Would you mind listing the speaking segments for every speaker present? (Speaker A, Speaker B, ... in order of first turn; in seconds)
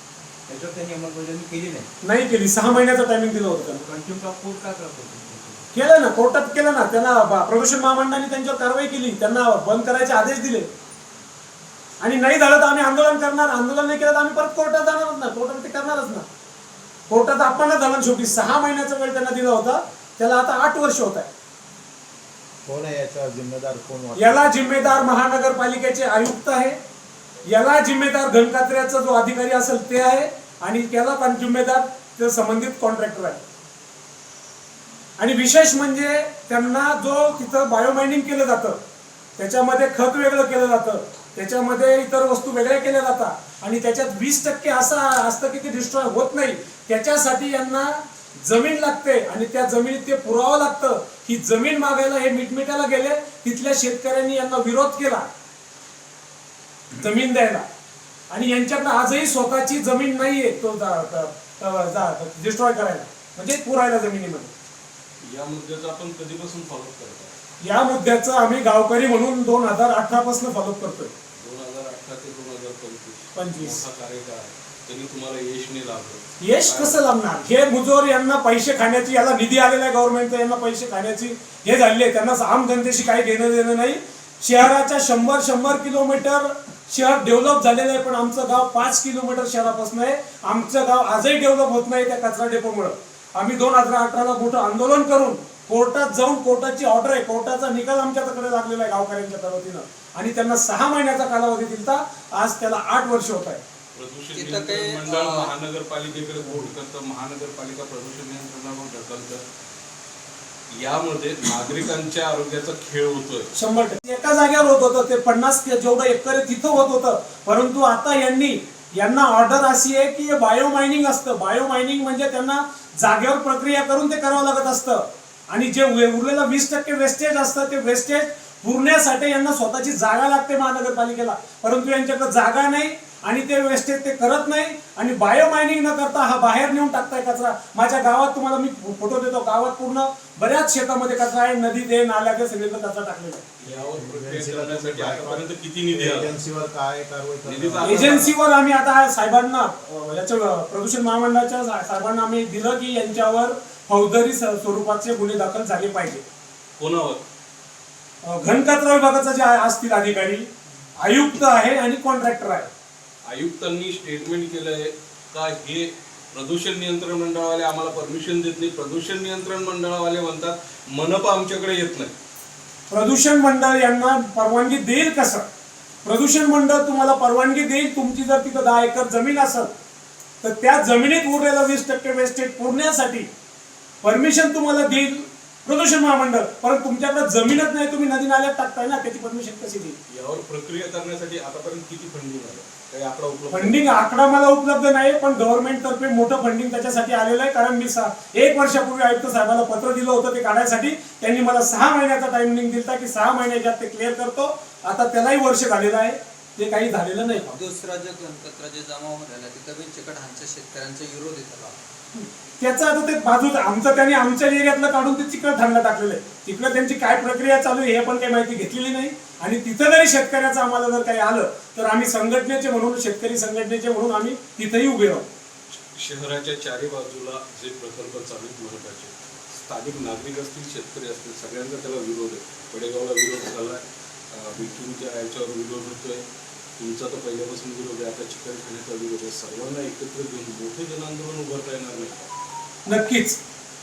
Speaker A: 0.5-1.9, 2.7-5.7
Speaker B: 2.0-3.8, 5.7-10.7, 12.0-16.3, 17.1-21.3, 24.1-26.8, 27.5-33.4, 35.2-38.8, 39.4-55.3, 56.9-57.6, 58.3-64.5, 67.6-71.1, 73.3-73.8, 76.4-103.6, 113.5-143.4, 147.8-156.2, 158.2-160.5, 161.0-162.7, 172.9-175.4, 176.0-179.7, 180.4-183.3, 184.0-189.9, 193.5-207.5, 212.1-225.3, 242.8-243.4
Speaker C: 22.6-25.1, 143.7-148.3
Speaker D: 65.2-67.3, 71.4-77.0, 103.9-109.4, 110.8-113.5, 143.6-146.3, 147.4-148.3, 156.8-157.2, 163.2-172.1, 190.1-194.0, 225.7-236.2, 236.8-242.3
Speaker E: 104.3-105.5, 207.4-211.8